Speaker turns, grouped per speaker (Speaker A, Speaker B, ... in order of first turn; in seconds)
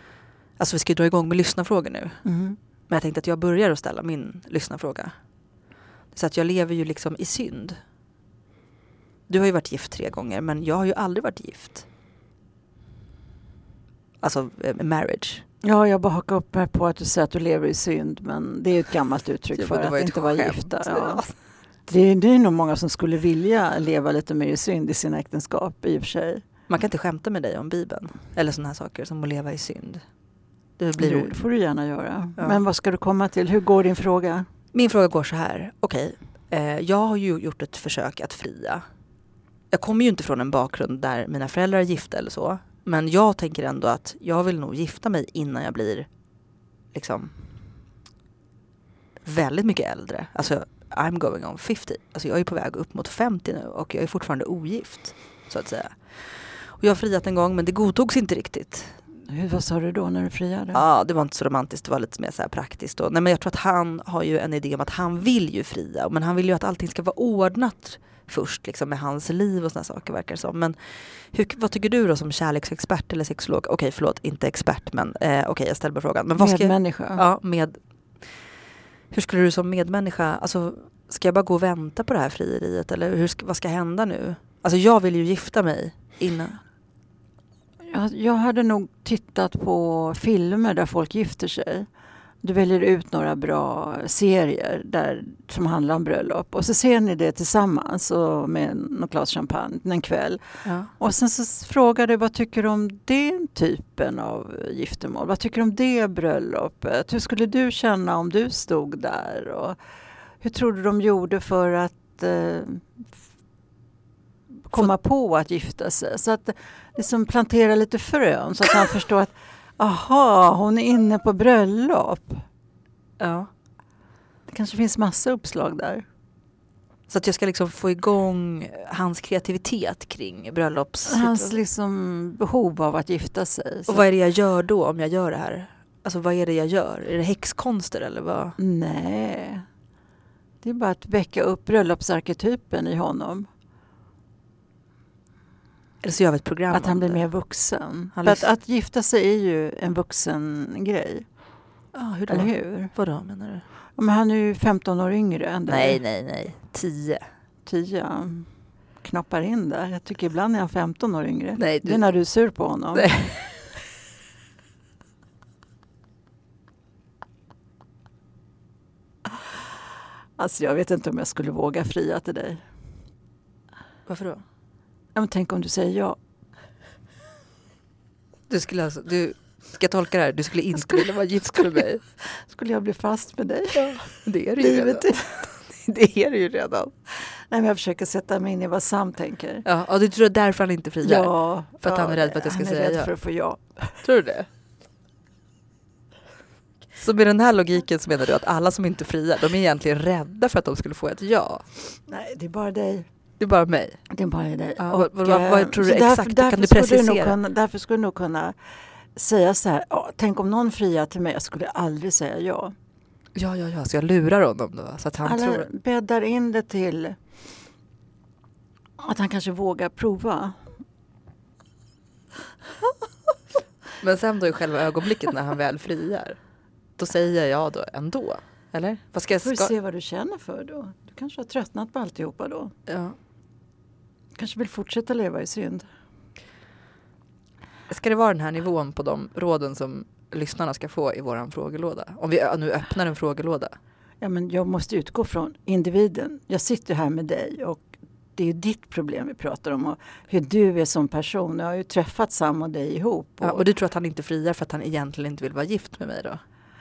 Speaker A: 0.6-2.3, 2.9-5.3, 6.1-7.8, 9.3-11.9, 14.2-15.4, 19.6-21.5, 26.7-30.2, 30.8-31.3, 34.7-38.8, 39.7-46.1, 46.9-47.3, 49.2-59.0, 60.7-86.6, 100.6-100.9, 123.2-123.5, 127.1-131.6, 133.9-138.6, 146.0-147.2, 148.1-148.4, 151.9-153.6, 155.7-157.2, 161.6-162.0, 162.9-163.8, 174.1-174.4, 178.5-182.2, 183.7-187.0, 189.6-193.1, 194.0-194.5, 196.9-201.7, 203.4-204.0, 204.8-207.3, 213.3-215.7, 224.0-229.7, 232.9-233.2, 237.9-243.8, 253.4-256.4
Speaker B: 2.2-2.6, 15.6-26.4, 30.9-34.5, 59.3-60.8, 76.4-77.2, 87.9-91.9, 92.4-109.8, 110.4-113.1, 114.7-122.4, 124.5-126.0, 131.1-134.1, 138.6-139.6, 140.6-143.5, 146.7-151.3, 152.3-152.9, 153.9-156.0, 157.6-163.1, 170.4-172.6, 175.1-176.2, 182.2-185.5, 187.4-189.6, 191.0-194.0, 202.1-203.1, 204.1-208.6, 209.1-212.7, 215.2-217.2, 219.0-220.7, 229.4-232.8, 234.3-235.9, 244.2-253.6